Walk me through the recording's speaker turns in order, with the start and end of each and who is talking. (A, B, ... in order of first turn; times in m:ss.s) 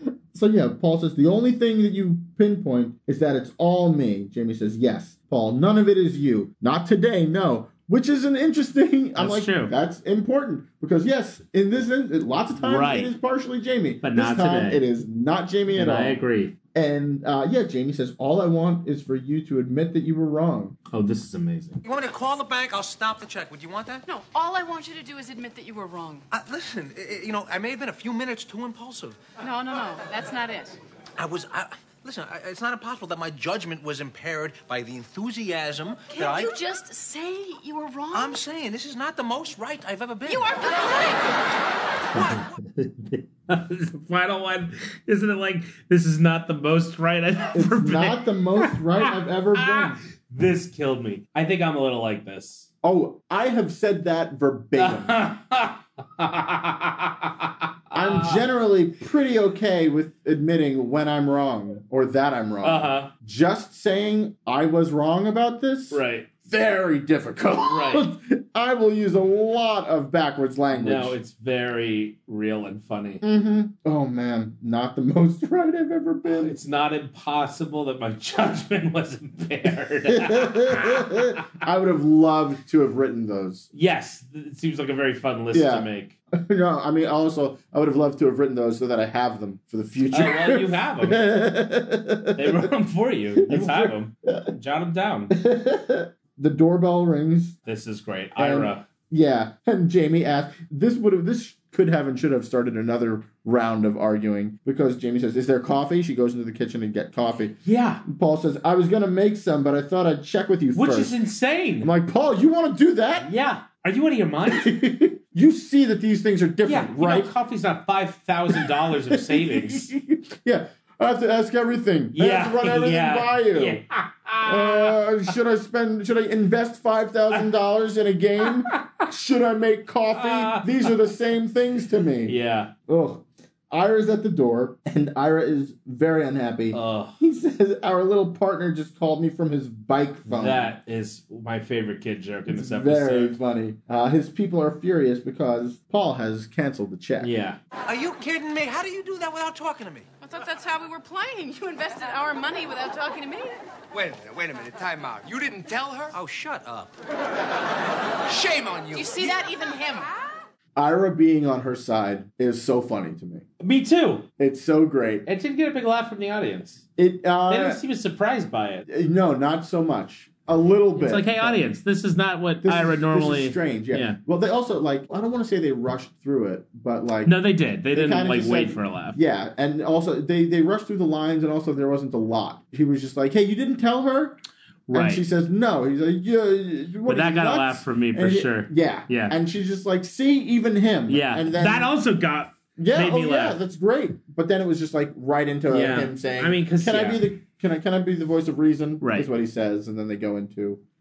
0:00.3-0:16.2 A
0:09.2-0:09.7 B
0:12.6-0:13.1 B
0:14.0-0:14.8 B
0:15.7-0:16.5 B
0:16.7-0:20.8 A
0:20.9-0:21.8 B
0:21.8-0:24.0 C
0:24.1-0:26.2 D
0:26.3-0:29.2 C
0:29.4-0:30.8 D
0:31.2-0:36.6 C
0:36.1-0:38.4 D
0:38.1-0:40.6 C
0:40.3-0:41.3 D
0:42.1-0:42.4 C
0:42.1-0:52.7 B
0:47.5-0:50.0 A
0:52.8-0:55.2 A
0:54.8-0:58.4 B
0:57.9-1:11.2 A
1:02.6-1:03.1 B
1:05.9-1:06.3 B
1:07.6-1:08.1 B
1:10.7-1:13.2 B
1:13.2-1:16.6 A
1:16.3-1:21.3 B
1:20.1-1:23.7 A
1:23.7-1:26.1 B
1:25.5-1:32.7 A
1:30.1-1:31.3 B
1:32.3-1:35.3 B
1:33.3-1:34.5 A
1:35.3-1:37.6 A
1:37.6-1:38.8 B
1:38.4-1:51.2 A
1:47.6-1:48.0 B
1:50.7-1:51.9 B
1:51.8-1:53.3 A
1:53.2-1:54.7 B
1:54.4-1:57.3 A
1:56.6-1:59.9 B
1:58.5-2:03.8 A
2:02.1-2:05.0 B
2:04.4-2:12.4 A
2:08.7-2:09.0 B
2:10.1-2:11.0 B
2:12.2-2:12.7 B
2:12.9-2:20.7 A
2:16.7-2:17.2 B
2:20.3-2:23.4 B
2:22.5-2:27.3 A
2:27.2-2:27.6 B
2:27.8-2:30.1 C
2:30.2-2:33.6 D
2:33.9-2:36.2 E
2:36.1-2:36.9 C
2:38.2-2:39.4 E
2:38.9-2:40.1 D
2:40.8-2:43.5 A
2:43.6-2:44.3 B
2:44.4-2:45.3 A
2:45.2-2:46.8 B
2:47.0-2:47.8 A
2:47.5-2:48.9 B
2:48.9-2:51.6 A
2:50.9-2:54.2 B
2:52.6-2:57.4 A
2:57.2-2:59.2 B
2:57.9-3:04.4 A
3:04.9-3:05.2 B
3:04.9-3:11.9 A
3:07.1-3:09.4 B
3:11.1-3:13.6 B
3:12.8-3:20.8 A
3:15.7-3:17.2 B
3:19.0-3:19.3 B